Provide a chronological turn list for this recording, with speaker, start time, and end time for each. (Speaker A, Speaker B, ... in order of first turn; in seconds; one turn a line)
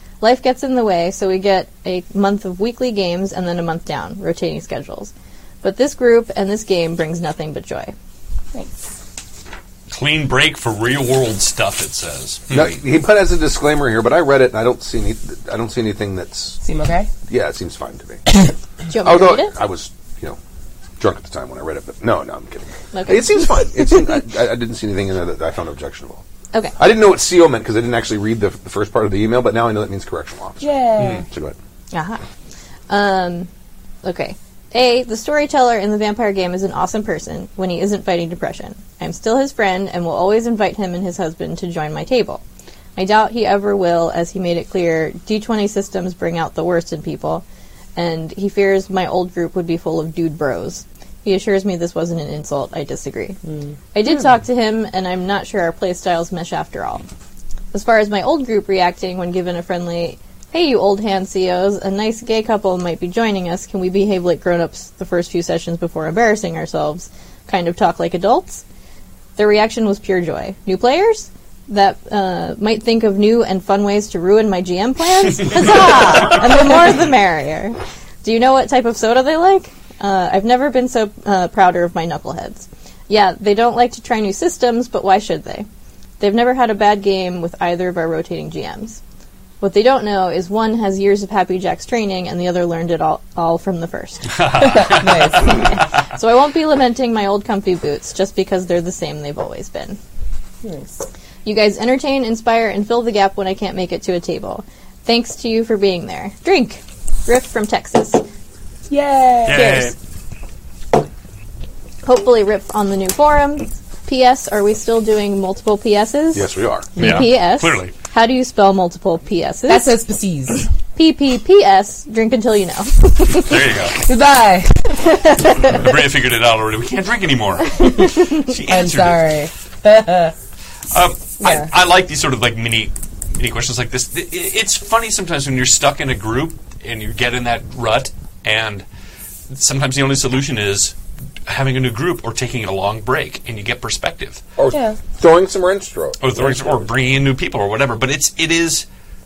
Speaker A: 0.2-7.9
Speaker B: 9.9-12.8
Speaker C: 12.5-16.6
Speaker D: 16.6-17.1
Speaker C: 17.3-18.2
Speaker A: 18.9-19.5
Speaker C: 19.0-20.4
Speaker C: 21.0-26.2
Speaker A: 22.9-23.9
Speaker C: 26.8-31.6
Speaker D: 30.6-31.2
Speaker A: 31.9-32.2
Speaker A: 32.9-33.5
Speaker A: 34.0-42.4
Speaker A: 43.0-47.4
Speaker A: 48.0-53.4
Speaker D: 53.5-53.7
Speaker A: 53.9-57.0
Speaker A: 57.7-68.6
Speaker A: 69.4-85.7
Speaker B: 75.4-76.0
Speaker A: 86.2-89.0
Speaker A: 89.6-100.0
Speaker B: 94.3-95.8
Speaker D: 94.6-95.7
Speaker D: 100.6-101.0
Speaker A: 101.4-108.2
Speaker D: 108.9-109.9
Speaker B: 109.4-109.9
Speaker A: 112.0-120.0
Speaker C: 116.3-116.9
Speaker B: 117.0-117.9
Speaker D: 119.7-120.7
Speaker A: 120.9-123.6
Speaker B: 123.4-124.0
Speaker D: 124.0-125.1
Speaker A: 125.0-125.8
Speaker B: 125.7-129.4
Speaker D: 128.7-130.3
Speaker B: 130.9-138.8
Speaker D: 131.4-131.7
Speaker B: 139.5-140.9
Speaker B: 141.4-144.4
Speaker C: 144.6-146.9
Speaker D: 144.7-145.0
Speaker B: 146.2-148.8